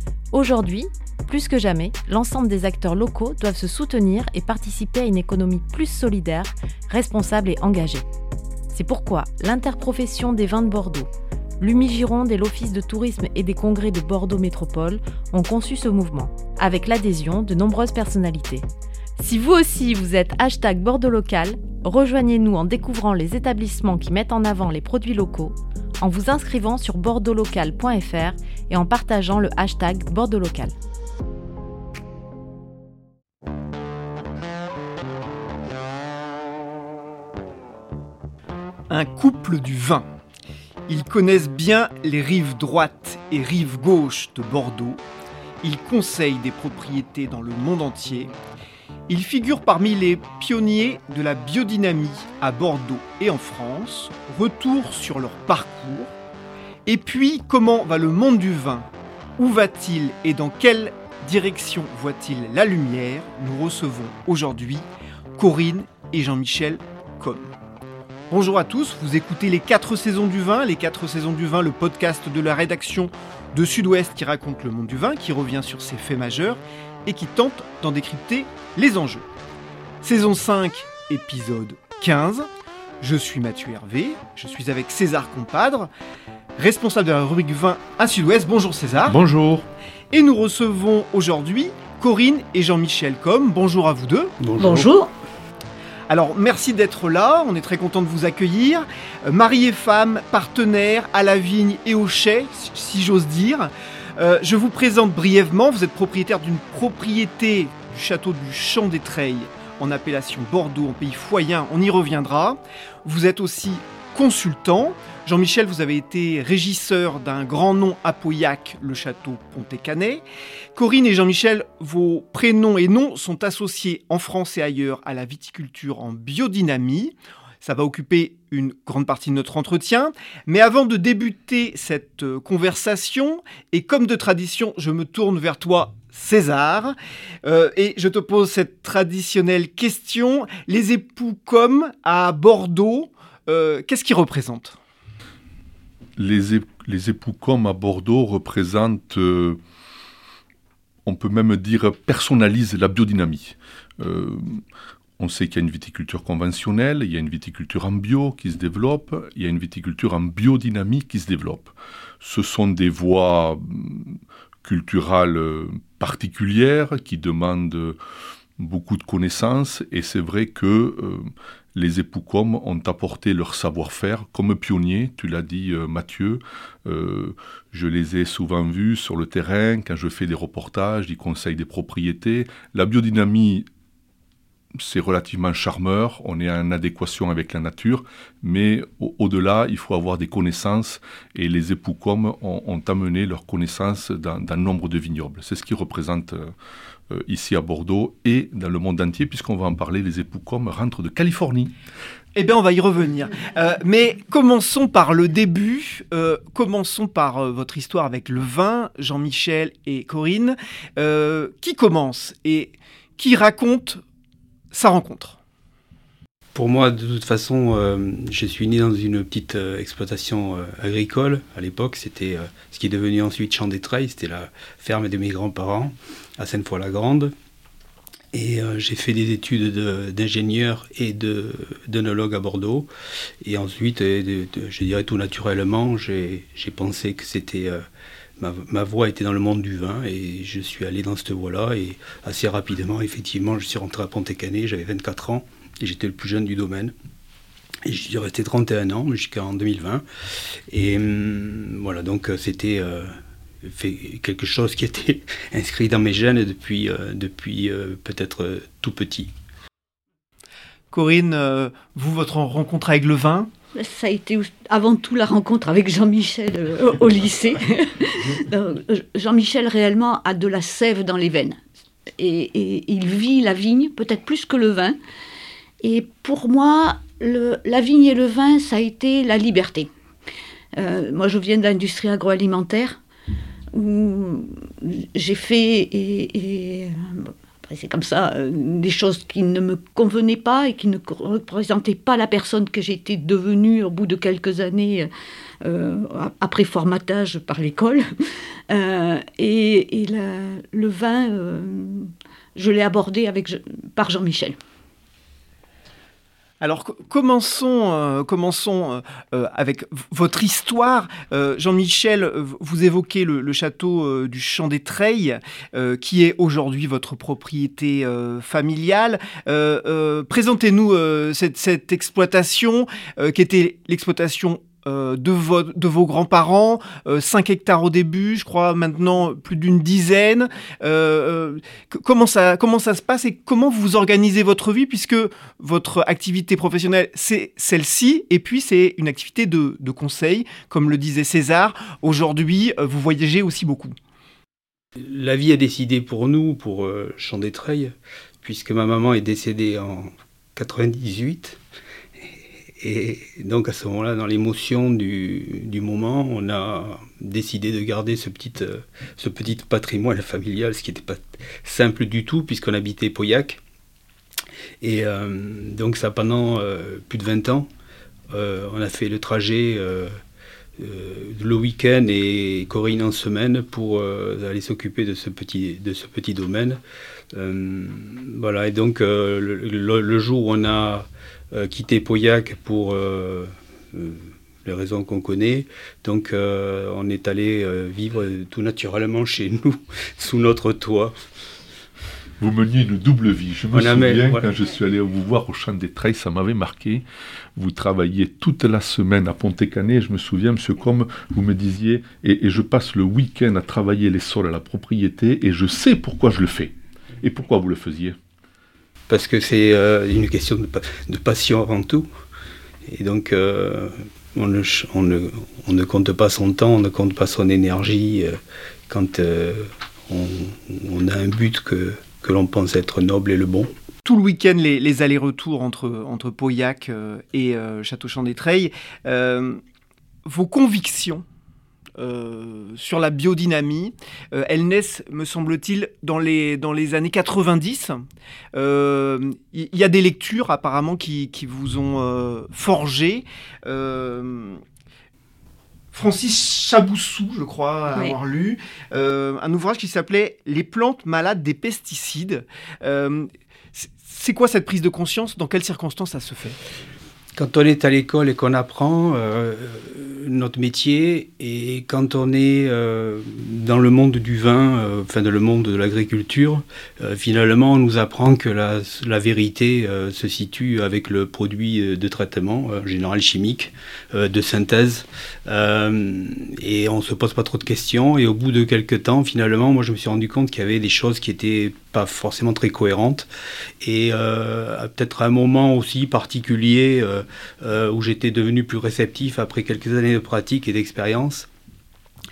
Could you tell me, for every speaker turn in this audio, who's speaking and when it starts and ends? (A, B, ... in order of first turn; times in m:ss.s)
0:00.3-0:08.1 A
0:08.7-0:18.7 A
0:19.2-0:30.8 A
0:38.9-0:40.1 B
0:40.9-0:45.0 B
0:45.6-0:48.3 B
0:49.1-0:56.2 B
0:56.9-1:07.5 B
1:08.3-1:19.3 B
1:20.0-1:22.5 B
1:23.0-1:25.9 B
1:26.6-1:29.2 B
1:29.1-1:29.7 C
1:30.1-1:34.4 B
1:34.4-1:34.9 D
1:34.6-1:35.1 E
1:36.1-2:00.2 B
2:00.8-2:24.8 B
2:26.2-2:29.6 C
2:31.0-2:34.6 C
2:35.2-2:48.0 C
2:48.6-3:03.7 C
3:04.8-3:16.5 C
3:17.1-3:21.7 C
3:22.4-3:34.0 B
3:34.7-3:35.4 B
3:36.6-3:47.3 D
3:48.3-3:52.9 D
3:53.4-3:57.8 D
3:58.4-4:06.9 D
4:07.8-4:19.3 D
4:20.9-4:23.5 B
4:23.8-4:31.6 E
4:32.2-4:35.0 E
4:35.8-4:39.9 E
4:40.8-4:43.0 E
4:43.7-4:55.1 E
4:55.6-4:58.0 E
4:58.7-5:04.6 E
5:06.6-5:44.0 B
5:45.0-5:51.6 D
5:52.8-6:03.6 D
6:04.8-6:07.7 D
6:08.3-6:10.1 D
6:10.8-6:16.8 D
6:17.3-6:31.2 D
6:32.4-6:37.0 C
6:33.7-6:34.5 D
6:37.6-6:48.2 C
6:49.1-6:52.1 D
6:52.9-7:03.7 D
7:04.0-7:09.6 B
7:10.2-7:11.2 B
7:12.0-7:24.6 B
7:25.9-7:36.6 B
7:37.4-8:03.3 D
8:03.8-8:11.5 D